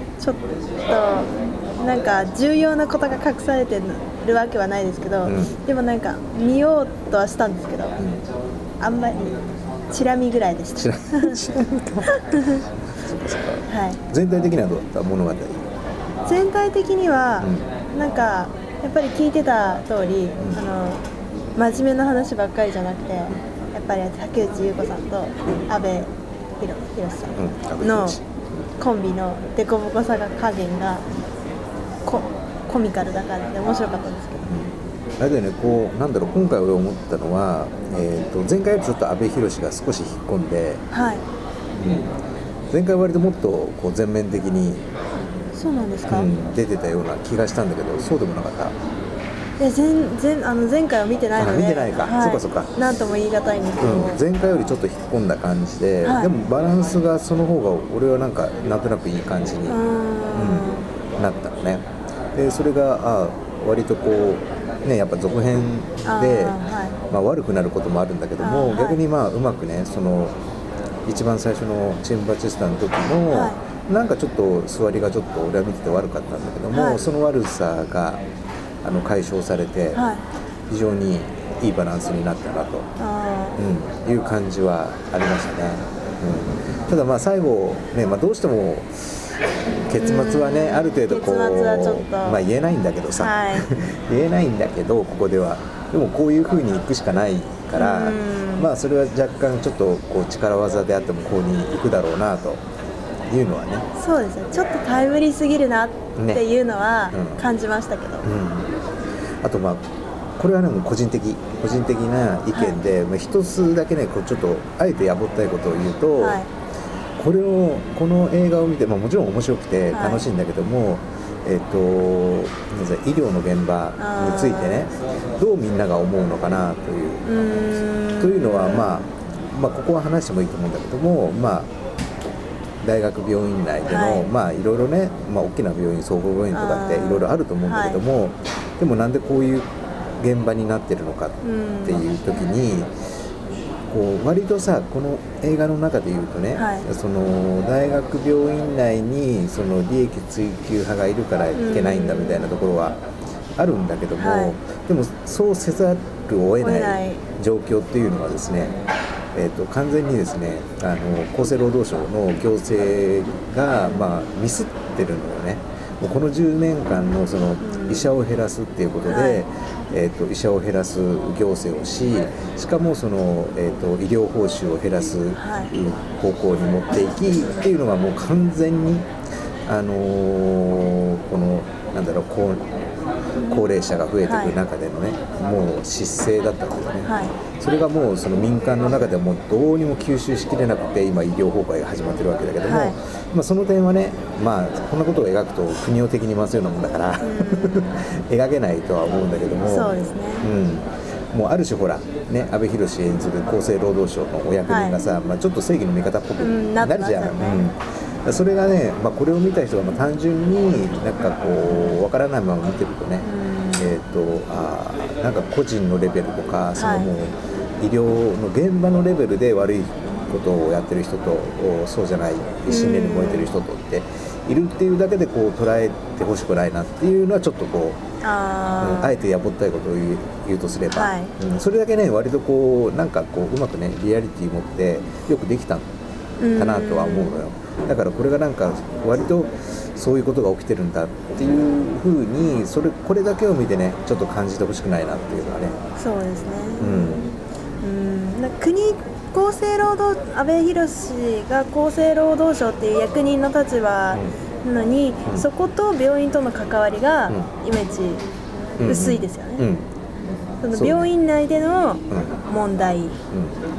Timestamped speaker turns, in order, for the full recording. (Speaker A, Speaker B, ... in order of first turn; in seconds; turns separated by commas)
Speaker A: 0.2-8.0, Speaker B: 5.2-5.6, Speaker B: 8.0-8.2, Speaker A: 8.8-11.4, Speaker B: 10.8-15.7, Speaker A: 12.1-12.6, Speaker A: 13.7-14.0, Speaker A: 16.2-21.0, Speaker B: 17.4-17.7, Speaker A: 21.6-28.2, Speaker B: 27.4-28.7, Speaker A: 28.8-31.1, Speaker A: 32.0-34.5, Speaker B: 34.4-40.8, Speaker A: 40.9-41.2, Speaker B: 41.8-42.1, Speaker B: 42.7-44.9, Speaker A: 45.5-46.3, Speaker B: 46.1-48.8, Speaker A: 49.6-54.2, Speaker B: 51.4-52.8, Speaker B: 53.8-59.8, Speaker A: 56.0-56.4, Speaker A: 59.7-60.9, Speaker B: 60.3-70.4, Speaker A: 66.0-67.0, Speaker A: 68.4-69.0, Speaker B: 71.1-78.2, Speaker A: 73.3-73.6, Speaker A: 76.7-77.1, Speaker B: 78.8-80.0, Speaker A: 79.9-80.2, Speaker B: 80.7-82.9, Speaker A: 83.0-83.6, Speaker B: 83.6-89.4, Speaker B: 89.9-102.6, Speaker A: 90.0-92.4, Speaker A: 93.2-93.7, Speaker A: 97.8-98.7, Speaker B: 103.3-103.9, Speaker A: 104.0-108.3, Speaker B: 106.2-106.4, Speaker B: 107.1-107.5, Speaker B: 108.2-108.7, Speaker B: 109.4-109.8, Speaker B: 110.4-116.4, Speaker A: 112.5-112.8, Speaker A: 116.2-116.5, Speaker B: 117.2-127.3, Speaker A: 119.9-120.3, Speaker A: 124.0-124.9, Speaker A: 127.2-129.0, Speaker B: 128.2-131.7, Speaker B: 132.8-142.9, Speaker A: 133.9-134.3, Speaker A: 136.5-138.0, Speaker A: 141.4-142.1, Speaker B: 143.9-153.0, Speaker A: 146.6-146.9, Speaker A: 151.6-152.5, Speaker B: 153.6-158.8, Speaker A: 154.2-154.6, Speaker A: 156.6-157.2, Speaker B: 159.3-179.1, Speaker A: 167.6-168.1, Speaker A: 169.1-169.4, Speaker A: 175.4-175.7, Speaker B: 179.7-182.7, Speaker B: 183.4-228.0, Speaker A: 184.2-184.6, Speaker A: 187.0-187.4, Speaker A: 192.6-193.0, Speaker A: 197.2-198.0, Speaker A: 199.7-200.5, Speaker A: 204.7-205.0, Speaker A: 206.4-207.7, Speaker A: 213.2-213.9, Speaker A: 216.8-217.1, Speaker A: 222.7-223.5, Speaker A: 228.2-229.2, Speaker B: 228.8-235.9, Speaker A: 230.9-231.3, Speaker A: 236.4-237.4, Speaker B: 236.6-245.8, Speaker A: 246.0-258.2, Speaker B: 246.8-247.3, Speaker B: 258.8-259.9, Speaker A: 258.8-259.7, Speaker A: 260.6-263.2, Speaker B: 260.7-261.1, Speaker B: 262.1-262.4, Speaker B: 263.3-263.6